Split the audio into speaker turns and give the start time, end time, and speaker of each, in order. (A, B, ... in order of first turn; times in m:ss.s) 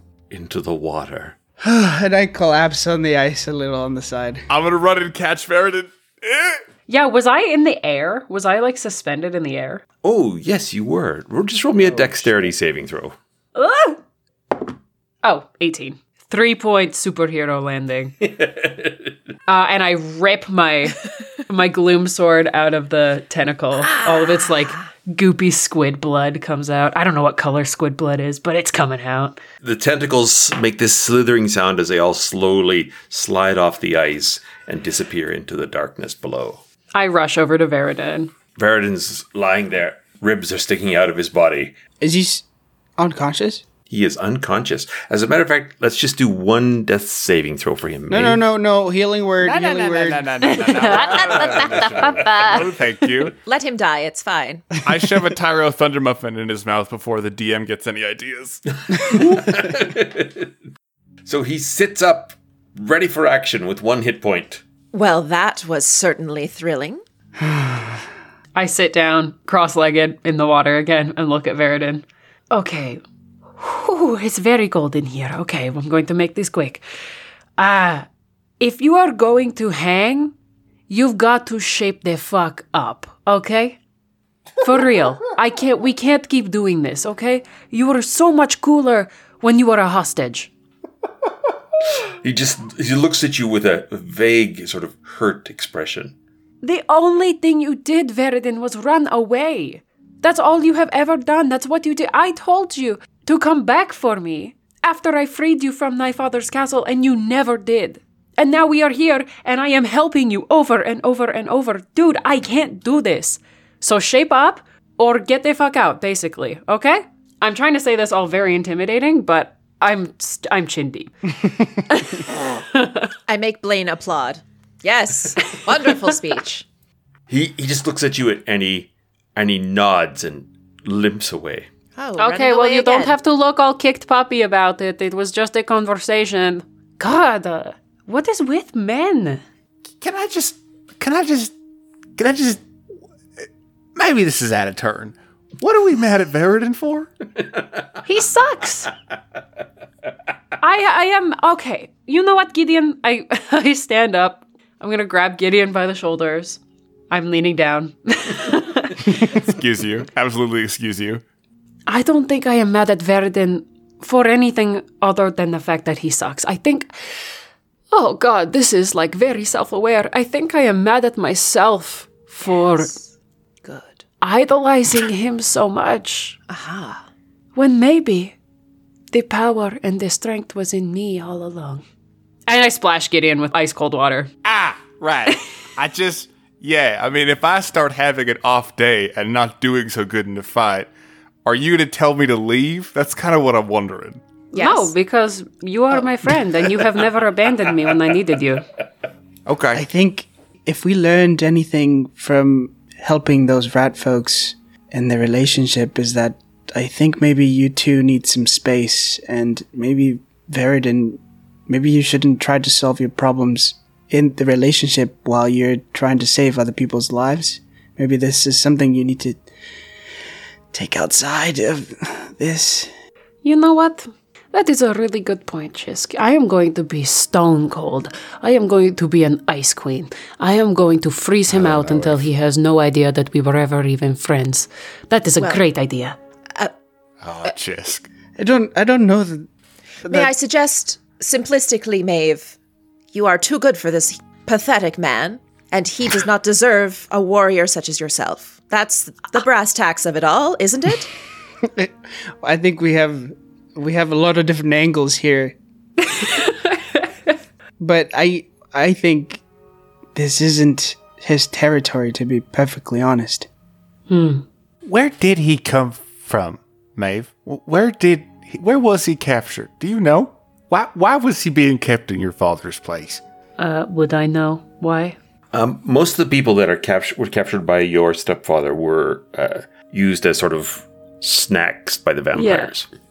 0:00.3-0:01.4 A
0:01.6-0:04.4 B
0:04.5-0:06.6 C
0:06.9-0:09.8 D
0:10.0-0:13.1 A
0:13.5-0:14.0 D
0:15.2-0:18.2 D
0:18.3-0:19.1 A
0:19.5-0:29.4 D
0:29.6-0:36.6 A
0:36.9-0:38.3 D
0:38.6-0:41.8 A
0:42.0-0:42.4 B
0:43.0-0:43.6 B
0:43.9-0:48.4 A
0:48.1-0:50.5 B
0:49.4-0:53.3 C
0:50.4-0:52.6 D
0:50.9-0:52.6 E
0:53.3-0:54.6 E
0:54.8-0:58.6 C
0:58.9-1:00.5 A
1:01.2-1:04.6 A
1:04.9-1:07.0 E
1:08.5-1:13.0 D
1:13.6-1:16.8 D
1:17.6-1:18.1 D
1:18.6-1:20.3 D
1:20.9-1:23.8 D
1:24.6-1:30.5 D
1:32.0-1:36.2 A
1:36.6-2:01.1 D
2:01.9-2:03.1 D
2:03.3-2:06.6 E
2:07.3-2:11.7 A
2:12.0-2:13.2 E
2:12.2-2:19.4 D
2:20.0-2:21.5 C
2:22.2-2:22.6 C
2:23.9-2:27.1 C
2:28.0-2:28.9 D
2:30.6-2:39.4 D
2:39.3-2:41.2 C
2:41.9-2:46.9 D
2:47.9-2:53.0 D
2:52.5-2:53.0 E
2:53.6-2:54.0 E
2:54.2-2:56.4 D
2:56.5-2:57.0 E
2:57.5-2:58.4 D
2:59.1-3:01.8 D
3:02.5-3:04.3 D
3:04.4-3:10.9 C
3:11.4-3:14.2 C
3:14.5-3:14.9 E
3:14.5-3:18.6 D
3:19.5-3:19.8 C
3:19.7-3:39.4 B
3:40.7-3:42.9 B
3:43.4-3:56.2 D
3:51.5-3:52.2 C
3:57.2-3:58.1 C
3:58.4-3:59.5 B
4:00.0-4:00.3 B
4:00.0-4:02.6 E
4:03.1-4:11.1 E
4:11.7-4:15.5 B
4:16.0-4:17.3 D
4:17.8-4:19.4 B
4:20.1-4:23.5 B
4:24.1-4:24.4 D
4:24.8-4:33.2 C
4:33.6-4:35.2 D
4:35.5-4:42.9 A
4:42.3-4:42.7 D